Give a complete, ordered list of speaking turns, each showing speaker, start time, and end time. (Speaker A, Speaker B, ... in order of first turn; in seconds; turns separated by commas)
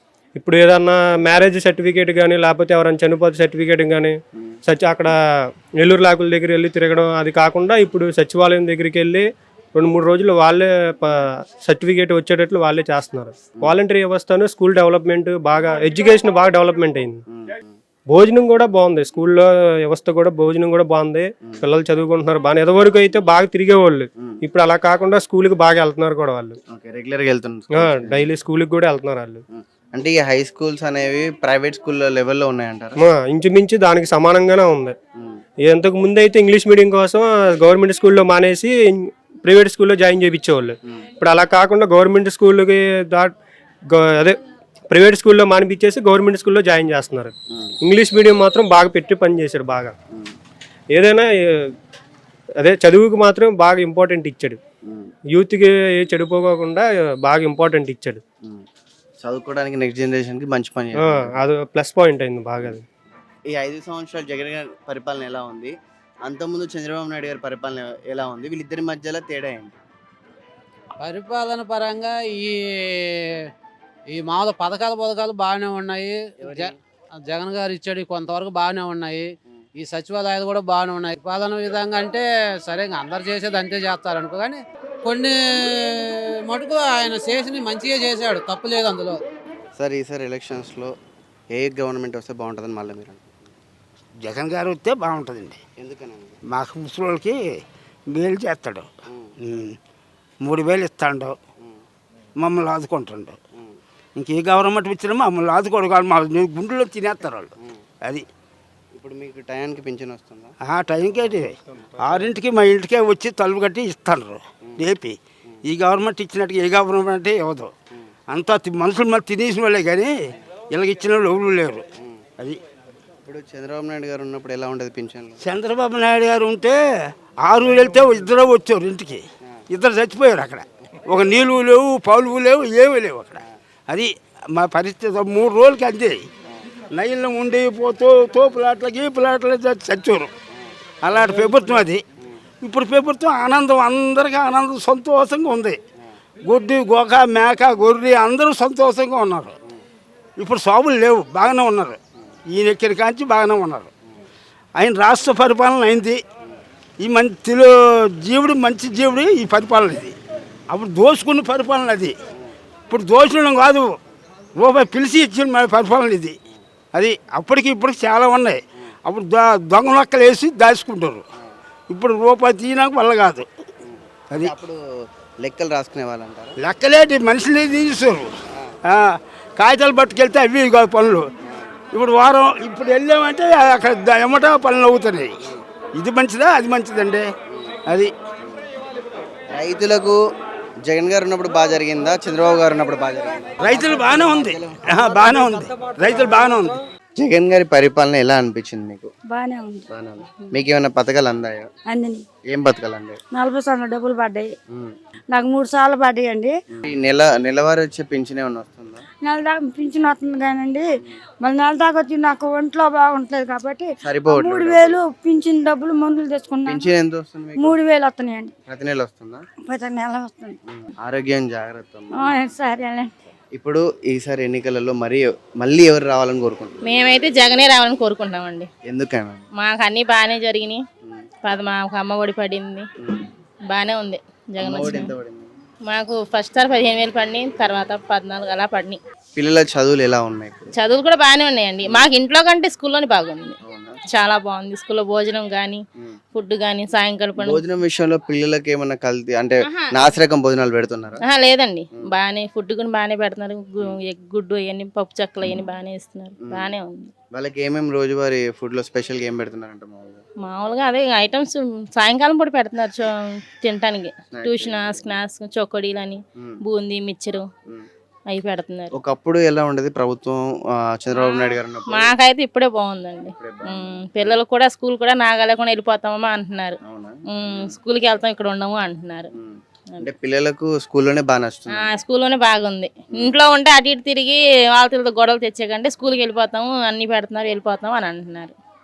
Speaker A: 0.4-5.1, Speaker A: 5.8-17.2, Speaker B: 17.3-17.7, Speaker A: 18.1-26.6, Speaker B: 26.7-28.3, Speaker A: 27.7-29.4, Speaker B: 29.5-33.0, Speaker A: 33.0-35.0, Speaker B: 35.2-35.4, Speaker A: 35.6-43.3, Speaker A: 43.9-44.4, Speaker A: 44.9-49.9, Speaker A: 50.9-51.7, Speaker A: 52.6-54.6, Speaker B: 54.8-55.1, Speaker A: 55.3-58.2, Speaker B: 59.2-61.3, Speaker A: 61.0-62.8, Speaker B: 63.5-69.8, Speaker C: 71.0-73.5, Speaker C: 74.1-89.2, Speaker B: 76.4-76.7, Speaker B: 89.8-90.9, Speaker B: 91.5-93.5, Speaker D: 94.2-95.6, Speaker B: 95.8-96.4, Speaker D: 96.5-97.6, Speaker D: 98.1-98.9, Speaker D: 99.4-99.8, Speaker D: 100.4-101.4, Speaker D: 102.4-103.4, Speaker D: 104.2-107.5, Speaker B: 108.9-110.5, Speaker D: 110.6-117.7, Speaker D: 118.3-120.1, Speaker D: 120.7-121.8, Speaker B: 122.0-122.2, Speaker B: 123.2-125.4, Speaker D: 125.4-126.8, Speaker D: 127.4-136.3, Speaker D: 136.9-140.3, Speaker B: 140.5-142.4, Speaker D: 141.0-142.0, Speaker D: 142.6-145.8, Speaker D: 146.4-149.5, Speaker D: 150.4-152.0, Speaker D: 152.5-153.9, Speaker D: 154.8-156.2, Speaker D: 157.0-160.2, Speaker D: 160.7-162.1, Speaker D: 162.9-164.0, Speaker D: 164.6-166.3, Speaker D: 166.9-171.2, Speaker D: 171.9-173.5, Speaker B: 173.8-176.6, Speaker D: 176.6-178.3, Speaker D: 178.8-181.3, Speaker B: 181.4-181.8, Speaker D: 181.9-185.3, Speaker D: 185.9-187.2, Speaker B: 187.5-187.8, Speaker D: 187.9-188.1, Speaker B: 189.5-190.2, Speaker B: 190.8-194.9, Speaker D: 193.6-196.8, Speaker B: 197.2-199.1, Speaker E: 199.3-199.9, Speaker B: 199.9-201.7, Speaker E: 201.9-202.2, Speaker B: 202.5-203.2, Speaker E: 203.3-204.5, Speaker E: 205.3-206.5, Speaker B: 206.7-209.0, Speaker E: 209.2-210.9, Speaker E: 211.4-216.9, Speaker B: 214.0-215.0, Speaker B: 216.7-217.8, Speaker E: 217.6-218.5, Speaker B: 218.7-219.4, Speaker E: 219.7-220.6, Speaker B: 221.0-222.2, Speaker E: 222.1-223.1, Speaker B: 223.6-226.9, Speaker F: 226.8-228.7, Speaker B: 228.8-229.4, Speaker F: 229.6-230.8, Speaker F: 231.4-232.8, Speaker B: 233.0-233.3, Speaker F: 233.7-235.1, Speaker B: 234.6-235.6, Speaker F: 235.9-239.0, Speaker B: 239.3-240.7, Speaker F: 240.8-243.6, Speaker B: 243.6-244.0, Speaker F: 244.1-245.8, Speaker F: 246.3-247.6, Speaker B: 247.4-251.2, Speaker F: 249.7-250.1, Speaker F: 251.2-257.1, Speaker B: 257.3-260.2, Speaker F: 260.4-267.4, Speaker B: 264.3-265.1, Speaker F: 268.3-268.9, Speaker B: 268.9-272.1, Speaker F: 271.1-276.8, Speaker B: 273.3-274.3, Speaker B: 276.8-277.7, Speaker F: 277.3-279.3, Speaker B: 279.3-281.9, Speaker F: 281.7-288.5